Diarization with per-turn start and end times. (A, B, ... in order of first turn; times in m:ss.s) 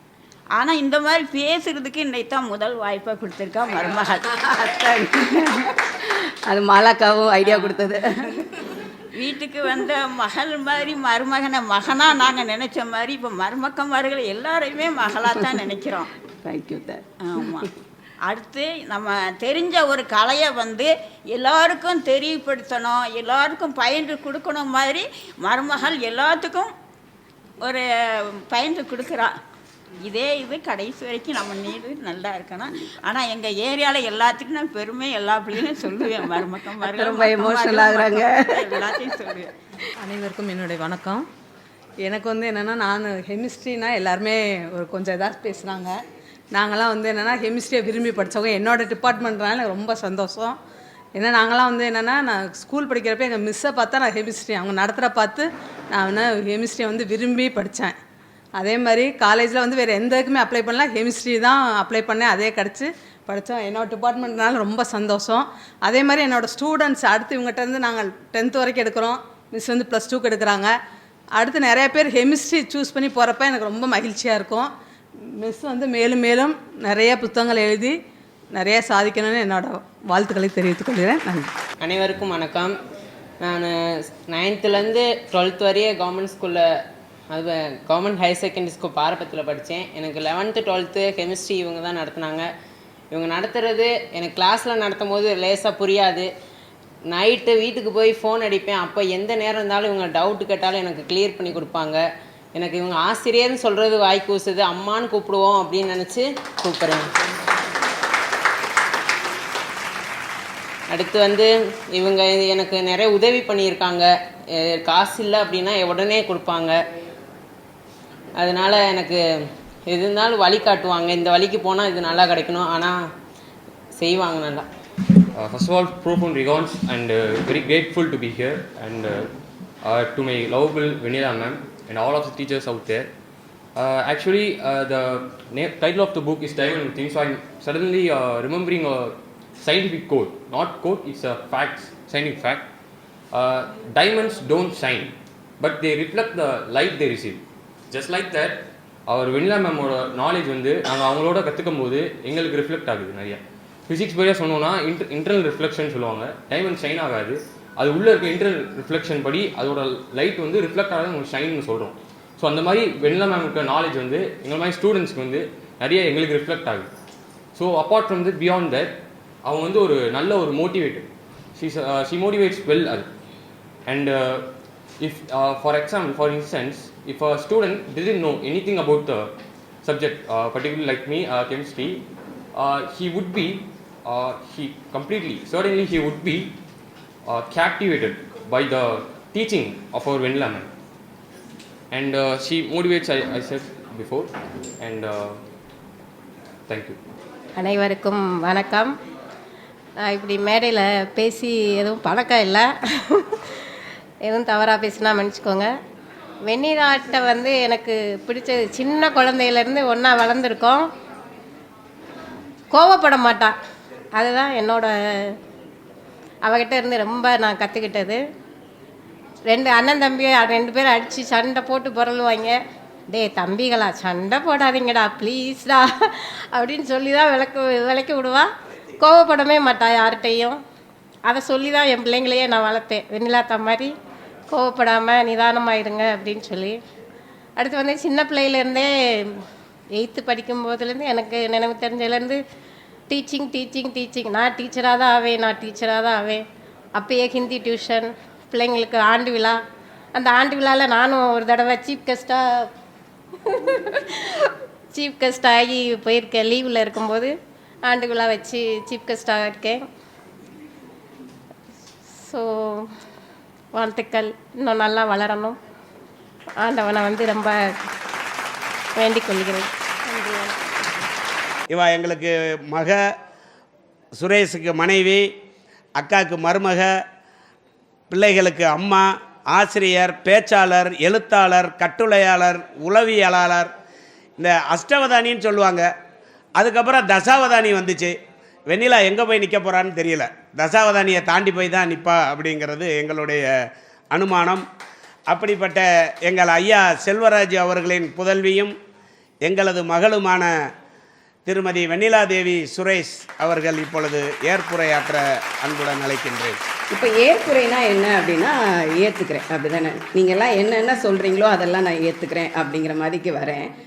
0:00.6-0:04.2 A
0:04.3-0:08.3 B
0:07.5-0:07.8 A
0:09.2-0:16.1 A
0:16.4-0:17.6 B
0:17.2-0:17.6 A
0:18.3-0:26.7 A
0:28.5-0:29.3 A
0:30.0-0:39.5 A
0:36.0-0:39.1 B
0:40.0-0:41.2 C
0:42.0-0:46.0 C
0:46.5-0:50.6 C
0:51.2-0:58.0 C
0:58.6-1:10.7 C
1:11.4-1:14.7 C
1:15.4-1:18.0 C
1:18.5-1:21.5 C
1:21.8-1:22.7 D
1:23.4-1:23.7 D
1:24.3-1:26.6 D
1:27.3-1:32.5 D
1:33.1-1:36.3 D
1:37.1-1:42.0 D
1:42.6-1:47.0 D
1:50.9-1:54.1 D
1:54.8-1:56.8 D
1:58.4-1:59.2 D
1:59.9-2:03.0 D
2:04.0-2:04.7 D
2:05.4-2:09.3 E
2:09.8-2:13.1 E
2:13.8-2:22.7 E
2:23.3-2:46.9 E
2:47.6-2:48.9 E
2:49.4-2:53.1 E
2:53.9-2:54.5 E
2:55.0-2:59.3 E
2:59.8-3:02.0 E
3:02.6-3:06.5 E
3:07.3-3:10.7 E
3:11.9-3:15.4 E
3:16.7-3:17.0 E
3:17.6-3:19.0 F
3:20.0-3:23.4 F
3:24.2-3:25.7 F
3:26.5-3:30.9 F
3:32.7-3:33.5 F
3:34.2-3:35.3 F
3:36.4-3:38.2 F
3:39.5-3:42.6 F
3:43.1-3:50.6 F
3:51.3-3:53.9 F
3:54.5-3:56.8 F
3:57.6-3:59.4 F
4:00.0-4:02.4 F
4:03.1-4:06.4 F
4:07.0-4:09.6 F
4:10.2-4:12.6 F
4:13.5-4:17.3 F
4:17.8-4:19.9 F
4:22.2-4:22.9 F
4:23.7-4:25.6 F
4:26.6-4:27.7 F
4:29.0-4:30.6 F
4:31.7-4:33.0 G
4:34.2-4:35.3 G
4:36.0-4:36.9 G
4:38.1-4:43.7 G
4:44.4-4:45.9 G
4:46.6-4:48.1 G
4:48.7-4:53.5 G
4:54.1-4:54.6 G
4:55.3-4:58.7 G
4:59.4-5:00.5 G
5:01.5-5:06.6 G
5:06.9-5:13.7 B